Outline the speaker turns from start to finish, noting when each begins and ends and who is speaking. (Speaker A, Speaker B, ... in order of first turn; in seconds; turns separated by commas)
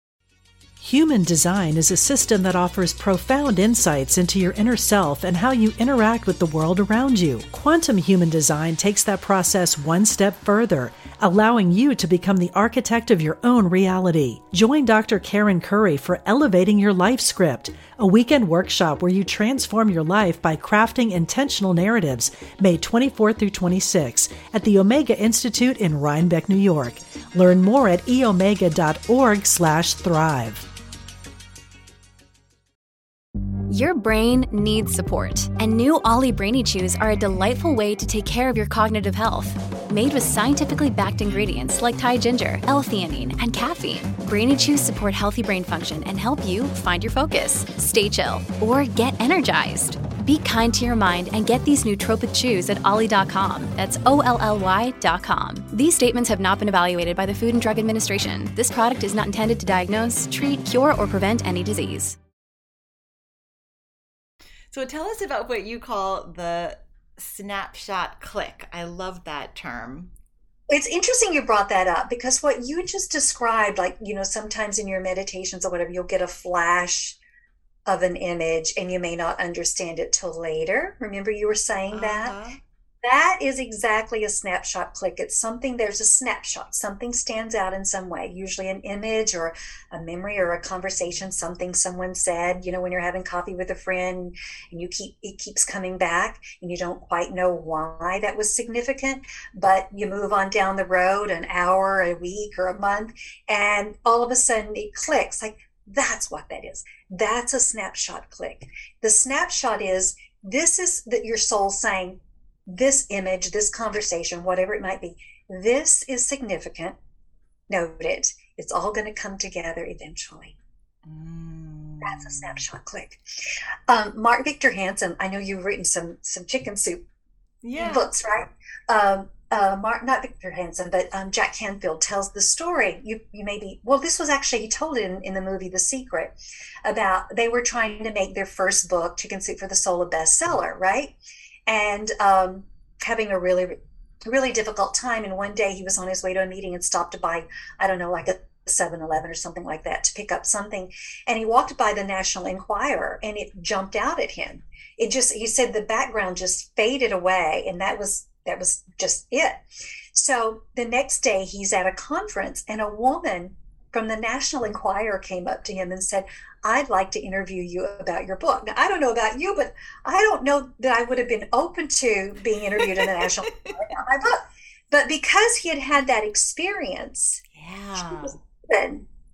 Speaker A: 0.8-30.6, Speaker B: 33.7-62.1, Speaker C: 64.7-70.1, Speaker D: 70.7-77.2, Speaker D: 77.8-82.3, Speaker C: 81.9-82.6, Speaker D: 83.0-117.0, Speaker D: 117.7-120.6, Speaker C: 121.0-122.6, Speaker D: 122.0-123.2, Speaker D: 123.9-127.0, Speaker C: 127.6-128.1, Speaker D: 127.8-141.1, Speaker D: 141.7-159.6, Speaker D: 160.1-177.4, Speaker C: 172.8-173.8, Speaker C: 177.5-178.4, Speaker D: 178.0-179.0